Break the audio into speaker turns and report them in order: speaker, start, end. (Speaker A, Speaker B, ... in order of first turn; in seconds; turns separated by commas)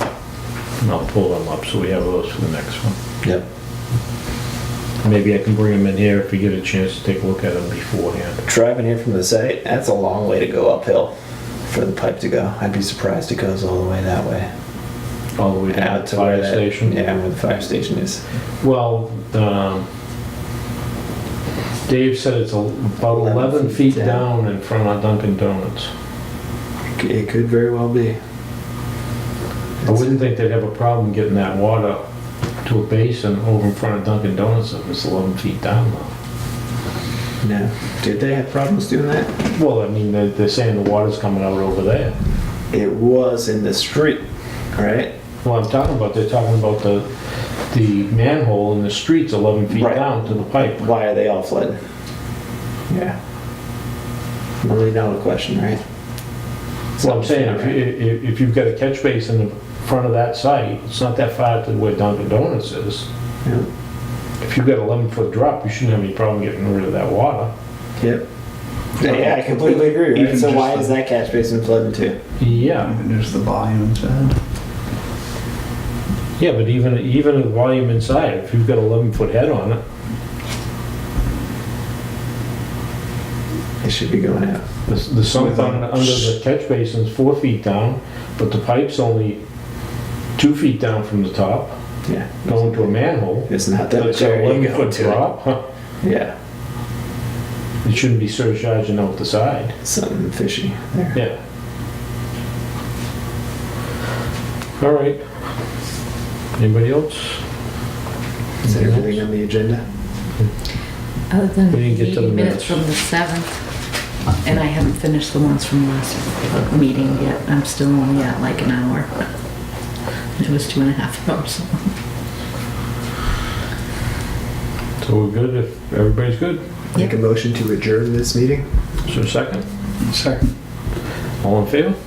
Speaker A: 0.8-3.0, Speaker A: 5.0-8.4, Speaker B: 8.4-11.1, Speaker B: 11.6-14.5, Speaker A: 15.4-17.2, Speaker B: 15.7-18.2, Speaker A: 18.6-19.9, Speaker A: 21.9-25.9, Speaker B: 23.1-24.2, Speaker B: 26.9-28.2, Speaker B: 29.8-30.2, Speaker A: 29.8-32.0, Speaker A: 32.6-36.1, Speaker B: 37.4-39.3, Speaker A: 39.5-42.1, Speaker B: 42.7-44.2, Speaker B: 44.7-45.1, Speaker A: 45.4-47.1, Speaker A: 47.7-50.8, Speaker B: 49.7-51.8, Speaker B: 52.9-53.1, Speaker B: 54.6-55.8, Speaker B: 57.0-57.8, Speaker A: 57.0-63.1, Speaker B: 63.4-63.7, Speaker A: 64.4-67.5, Speaker B: 68.0-68.2, Speaker C: 69.0-70.9, Speaker B: 69.0-72.2, Speaker A: 72.4-72.9, Speaker C: 72.7-74.4, Speaker A: 76.4-79.8, Speaker B: 83.8-84.6, Speaker A: 84.9-89.4, Speaker B: 85.3-86.3, Speaker A: 90.3-91.7, Speaker B: 92.0-95.2, Speaker A: 92.5-95.6, Speaker B: 96.0-96.3, Speaker A: 97.8-99.7, Speaker B: 99.8-101.2, Speaker A: 104.8-105.3, Speaker A: 106.6-107.4, Speaker A: 108.6-109.2, Speaker B: 108.6-109.8, Speaker D: 111.3-113.6, Speaker A: 111.7-112.8, Speaker D: 114.4-119.1, Speaker D: 120.3-121.8, Speaker A: 125.0-126.6, Speaker B: 126.9-128.6, Speaker A: 129.1-129.6, Speaker C: 130.0-130.5, Speaker A: 131.4-131.9